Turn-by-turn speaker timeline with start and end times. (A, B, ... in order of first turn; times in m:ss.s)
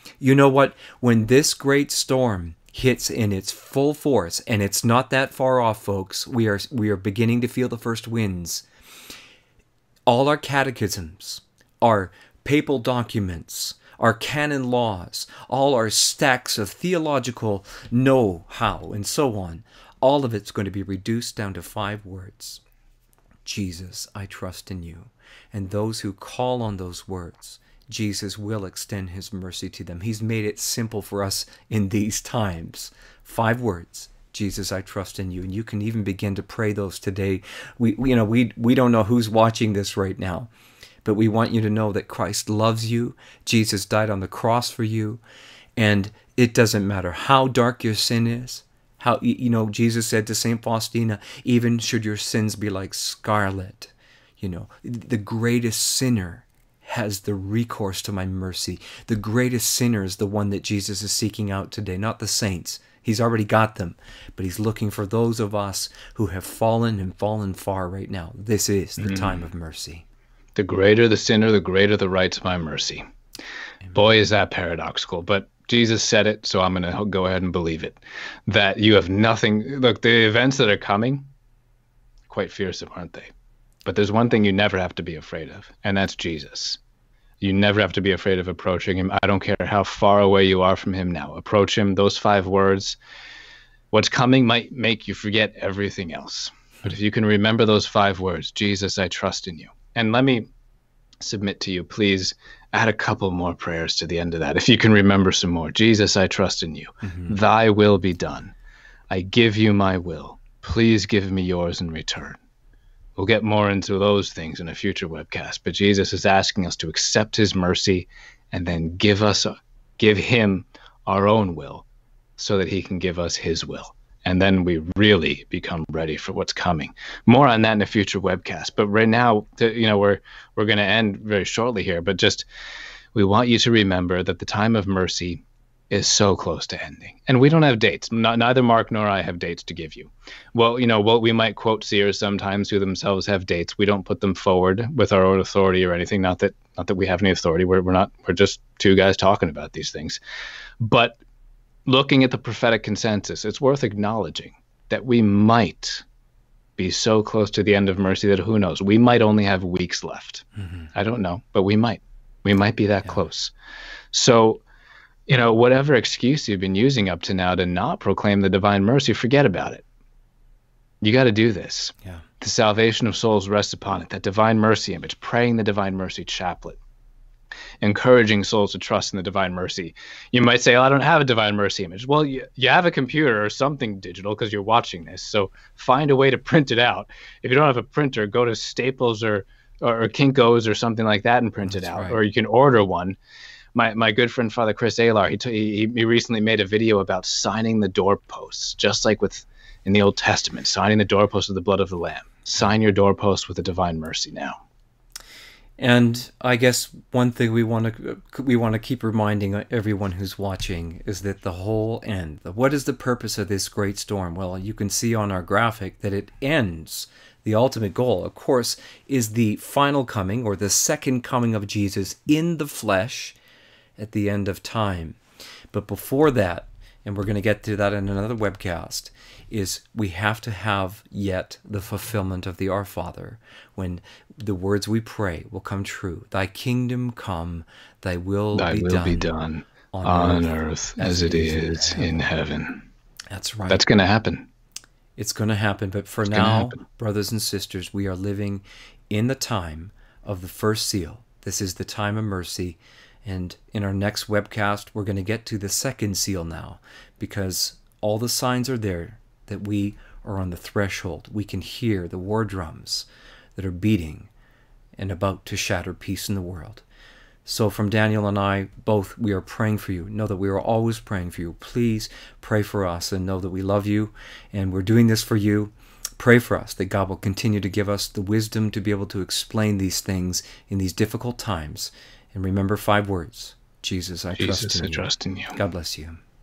0:00.2-0:08.6 A
0:10.1-0:22.6 A
0:23.4-0:40.5 A
0:41.0-0:45.2 A
0:45.8-1:10.0 A
1:09.0-1:09.4 B
1:10.6-1:13.0 B
1:13.9-1:21.3 B
1:22.3-1:23.3 B
1:23.8-1:26.8 B
1:27.4-1:33.0 B
1:33.9-1:40.5 B
1:41.2-1:48.6 B
1:47.1-1:47.4 A
1:49.1-1:52.4 B
1:53.2-2:01.9 B
2:02.4-2:12.5 B
2:13.1-2:30.2 B
2:30.8-2:31.2 B
2:31.9-2:36.0 B
2:36.8-2:43.5 B
2:40.6-2:40.9 A
2:44.1-2:44.6 B
2:45.3-2:49.8 B
2:51.0-2:56.8 B
2:57.8-3:13.2 B
3:11.7-3:12.2 A
3:13.8-3:24.6 B
3:25.8-3:43.4 A
3:44.0-3:45.2 A
3:45.7-3:59.3 A
3:58.5-4:02.9 B
3:59.9-4:02.3 A
4:03.3-4:03.8 A
4:03.7-4:04.5 B
4:05.2-4:24.3 A
4:06.3-4:06.8 B
4:25.0-4:26.8 A
4:27.4-4:46.2 A
4:44.4-4:45.6 B